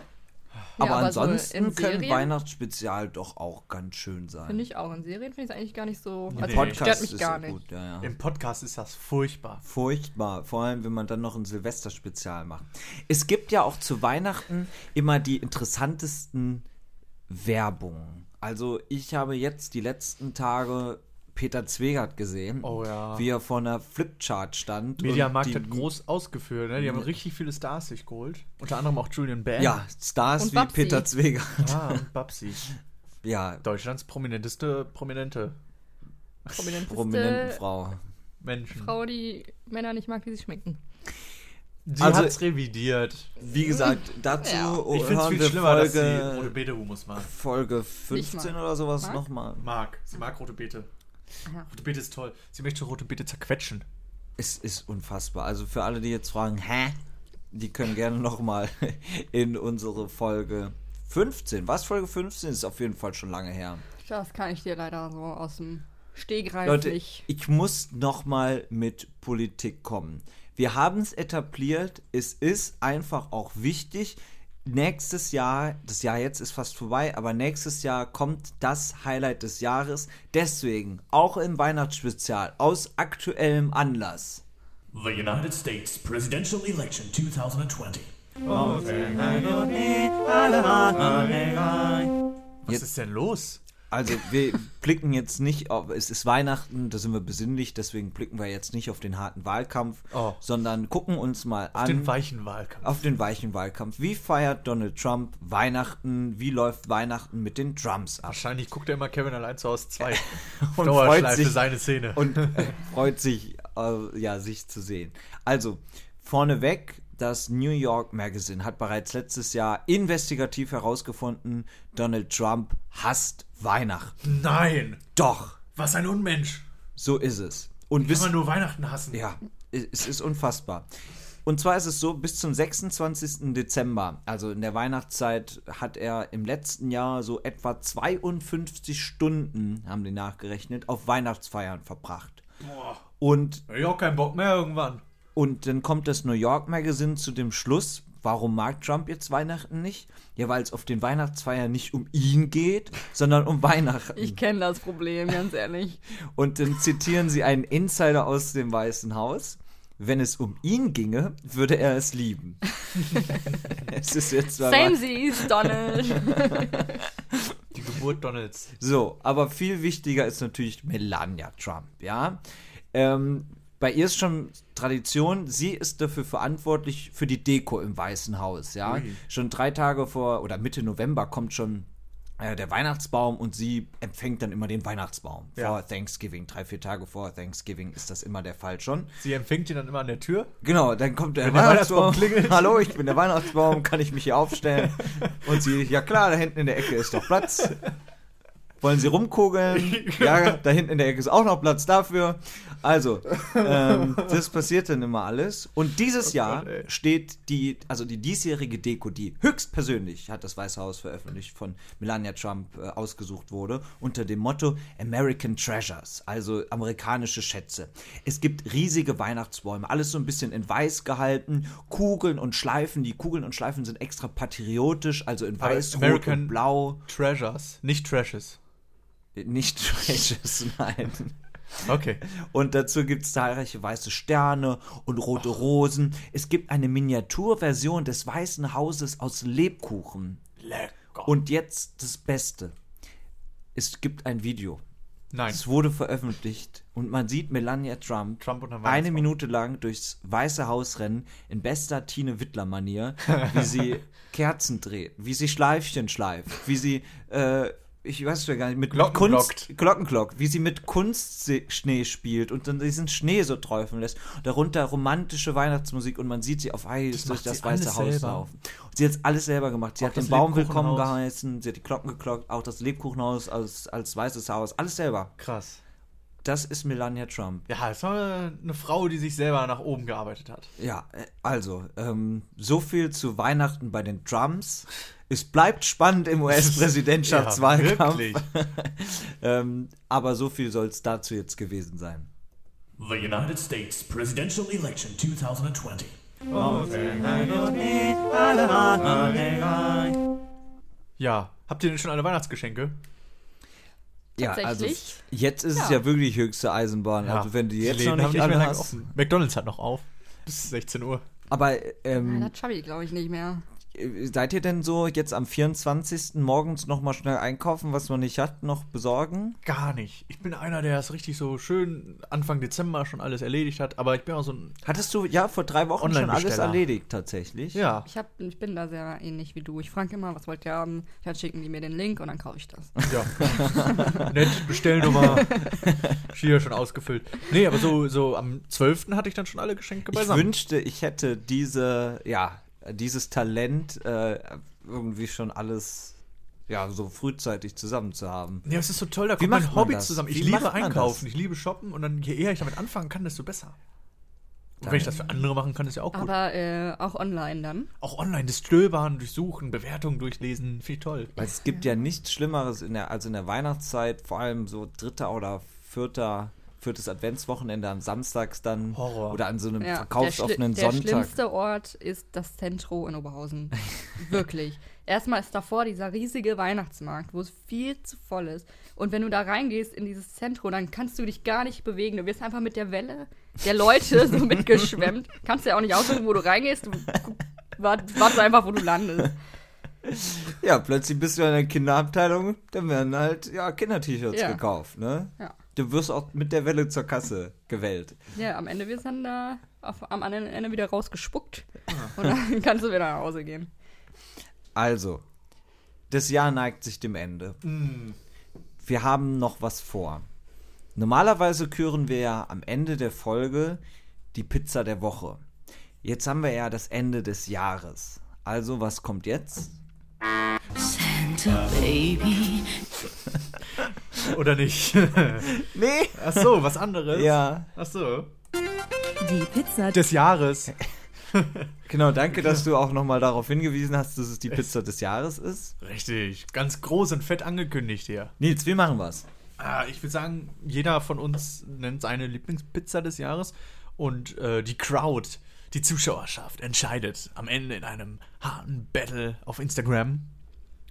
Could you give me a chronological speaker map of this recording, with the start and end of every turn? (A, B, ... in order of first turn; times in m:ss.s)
0:00.8-0:02.3 A
0:00.8-0:04.6 B
0:04.5-0:07.6 A
0:06.3-0:06.9 C
0:06.4-0:08.1 B
0:08.0-0:09.6 C
0:09.6-0:16.7 B
0:17.3-0:25.9 B
0:22.6-0:23.3 C
0:25.0-0:29.8 C
0:26.8-0:27.1 B
0:29.6-0:32.0 B
0:30.4-0:31.1 A
0:31.6-0:32.7 C
0:33.2-0:33.6 B
0:33.6-0:35.6 C
0:36.5-0:37.6 A
0:36.7-0:38.0 B
0:38.4-0:39.0 C
0:38.7-0:40.8 A
0:41.9-0:43.3 C
0:42.0-0:42.4 B
0:43.4-0:46.6 B
0:43.8-0:44.8 A
0:44.9-0:47.3 C
0:47.2-0:49.7 B
0:48.1-0:49.2 A
0:49.6-0:50.9 C
0:51.7-0:53.9 C
0:54.4-0:57.0 B
0:57.5-1:03.8 B
1:04.0-1:07.3 A
1:06.6-1:24.4 B
1:24.9-1:28.1 D
1:28.8-1:32.1 D
1:32.6-1:33.6 C
1:33.9-1:42.2 B
1:40.1-1:40.4 C
1:41.8-1:43.0 C
1:42.8-1:48.4 B
1:48.3-1:52.8 C
1:50.5-2:04.2 B
2:04.2-2:05.0 C
2:05.2-2:05.6 B
2:05.8-2:06.7 C
2:07.0-2:08.5 B
2:08.0-2:09.2 C
2:09.1-2:10.9 B
2:11.4-2:22.4 B
2:22.6-2:23.0 C
2:23.2-2:23.7 B
2:23.7-2:25.0 C
2:25.4-2:34.4 B
2:34.2-2:36.0 A
2:36.4-2:42.6 B
2:43.7-2:47.0 B
2:44.6-2:46.9 A
2:47.7-2:48.7 C
2:48.8-2:52.4 B
2:52.9-3:01.9 B
2:58.8-2:59.2 C
3:02.4-3:09.2 B
3:09.2-3:10.5 C
3:10.6-3:17.8 B
3:11.4-3:13.0 C
3:14.8-3:15.6 C
3:18.8-3:47.0 B
3:19.7-3:20.6 C
3:26.3-3:26.8 C
3:45.6-3:48.6 C
3:49.4-3:51.4 B
3:51.8-3:52.2 C
3:51.9-4:00.4 B
4:00.6-4:01.4 C
4:01.2-4:02.8 B
4:03.8-4:04.8 B
4:05.3-4:05.6 C
4:05.5-4:35.3 B
4:08.4-4:09.3 C
4:18.9-4:19.7 C
4:27.1-4:28.4 C
4:30.0-4:31.2 C
4:35.4-4:35.8 C
4:36.4-4:37.7 B
4:37.7-4:40.7 C
4:40.8-4:52.3 B
4:46.5-4:48.5 C
4:53.0-4:56.2 D
4:56.8-4:57.1 C
4:58.3-5:00.1 D
5:01.2-5:03.0 C
5:04.4-5:05.2 A
5:04.4-5:09.1 B
5:05.8-5:06.0 A
5:07.2-5:11.2 C
5:11.5-5:12.5 B
5:12.2-5:13.6 A
5:13.9-5:19.6 B
5:19.6-5:24.8 C
5:24.8-5:27.8 B
5:26.0-5:26.8 C
5:27.7-5:28.1 C
5:28.1-5:34.3 A
5:33.1-5:40.5 C
5:33.4-5:34.3 B
5:40.1-5:46.2 B
5:46.7-5:48.7 B
5:48.6-5:53.8 C
5:49.4-5:51.2 B
5:54.8-5:56.3 C
5:54.8-5:55.2 B
5:56.1-5:57.9 A
5:58.0-6:01.3 C
6:01.4-6:11.3 B
6:08.9-6:09.4 C
6:09.8-6:29.4 A
6:30.0-6:38.2 B
6:34.3-6:34.6 A
6:38.4-6:43.7 A
6:44.8-6:45.2 B
6:46.1-6:47.6 B
6:47.6-6:48.2 C
6:48.8-6:50.3 B
6:51.0-6:53.8 B
6:54.3-6:55.4 B
6:56.0-6:59.8 B
7:00.8-7:02.9 E
7:04.2-7:08.3 C
7:05.4-7:07.7 B
7:09.2-7:10.0 E
7:09.9-7:10.8 C
7:11.3-7:11.7 C
7:11.9-7:15.7 B
7:15.8-7:18.4 C
7:18.4-7:19.3 B
7:19.6-7:30.3 C